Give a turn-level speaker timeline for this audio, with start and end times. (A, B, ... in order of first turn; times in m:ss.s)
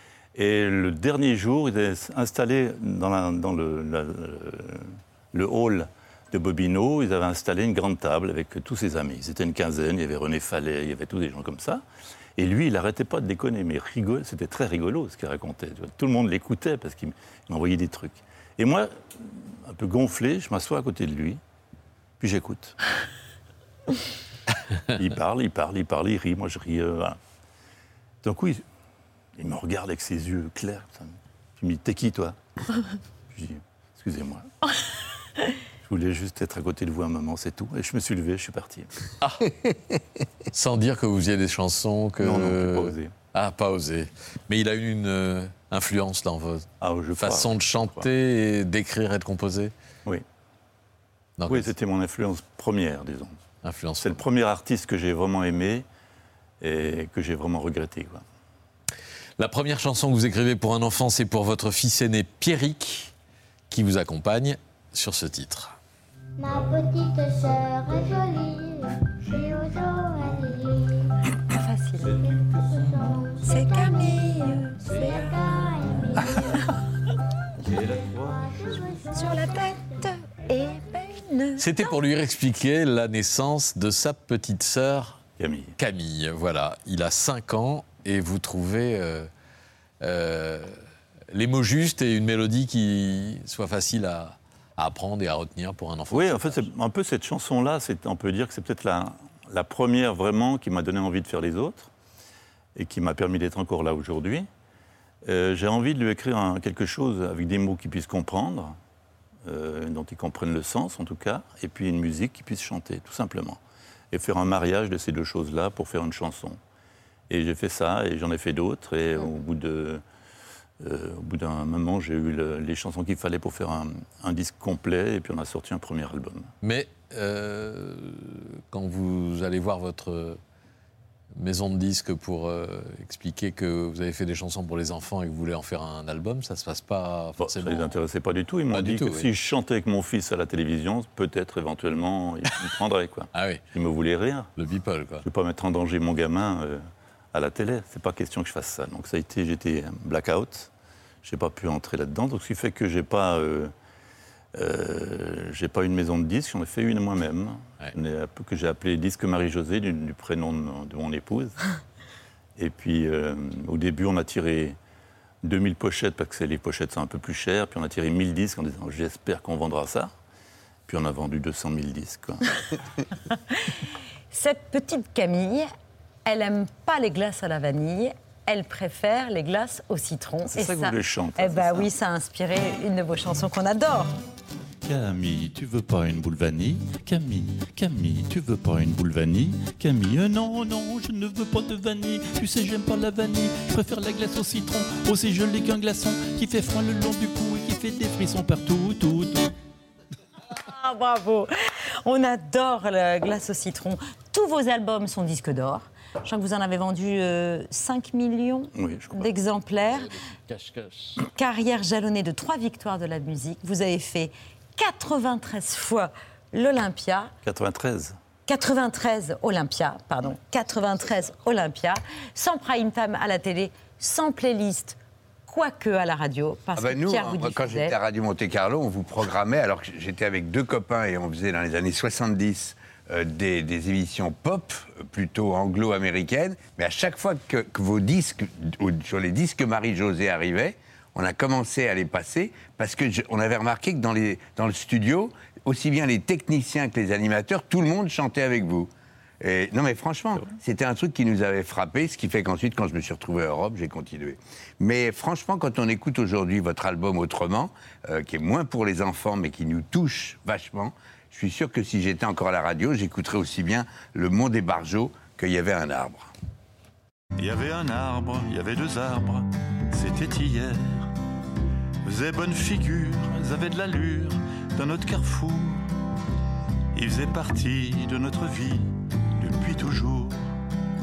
0:00.3-0:11.8 A
0:12.4-0:21.4 A
0:22.2-0:22.7 A
0:24.9-0:27.2 A
0:28.2-0:28.6 A
0:29.4-0:32.4 A
0:33.3-0:34.5 A
0:35.8-0:38.9 A
0:40.5-0:46.6 B
0:42.2-0:43.1 A
0:46.8-0:48.1 A
0:47.2-0:49.7 B
0:51.4-0:51.7 B
0:51.5-0:53.4 A
0:53.6-0:54.2 B
0:54.0-0:55.8 A
0:56.6-0:58.2 A
0:59.4-1:03.1 B
1:03.7-1:05.8 B
1:06.4-1:08.8 C
1:09.3-1:10.8 C
1:11.5-1:12.2 D
1:12.9-1:13.1 C
1:13.4-1:15.9 D
1:17.6-1:18.9 A
1:19.1-1:21.7 D
1:21.6-1:25.2 B
1:25.4-1:25.7 A
1:25.8-1:29.3 B
1:30.0-1:30.8 B
1:31.3-1:36.7 B
1:36.1-1:41.9 A
1:42.8-1:44.5 A
1:45.2-1:48.8 A
1:49.4-1:53.6 A
1:54.1-1:56.6 A
1:57.3-2:00.0 A
2:00.8-2:06.5 A
2:06.6-2:10.4 B
2:11.4-2:17.9 B
2:17.4-2:24.5 A
2:18.7-2:19.3 B
2:23.3-2:23.6 B
2:24.6-2:25.2 B
2:25.2-2:30.7 A
2:31.2-2:33.7 A
2:34.5-2:41.7 A
2:42.6-2:44.8 A
2:45.4-2:50.1 A
2:50.9-2:52.4 A
2:54.3-2:55.7 D
2:56.2-3:04.2 D
3:00.5-3:01.9 A
3:04.8-3:19.5 A
3:20.6-3:21.5 D
3:22.0-3:30.1 D
3:28.7-3:29.4 A
3:30.5-3:30.8 B
3:31.3-3:37.3 D
3:37.4-3:38.2 A
3:38.5-3:47.9 D
3:46.8-4:26.3 E
4:27.4-4:31.1 A
4:32.0-4:35.9 A
4:36.9-4:40.4 A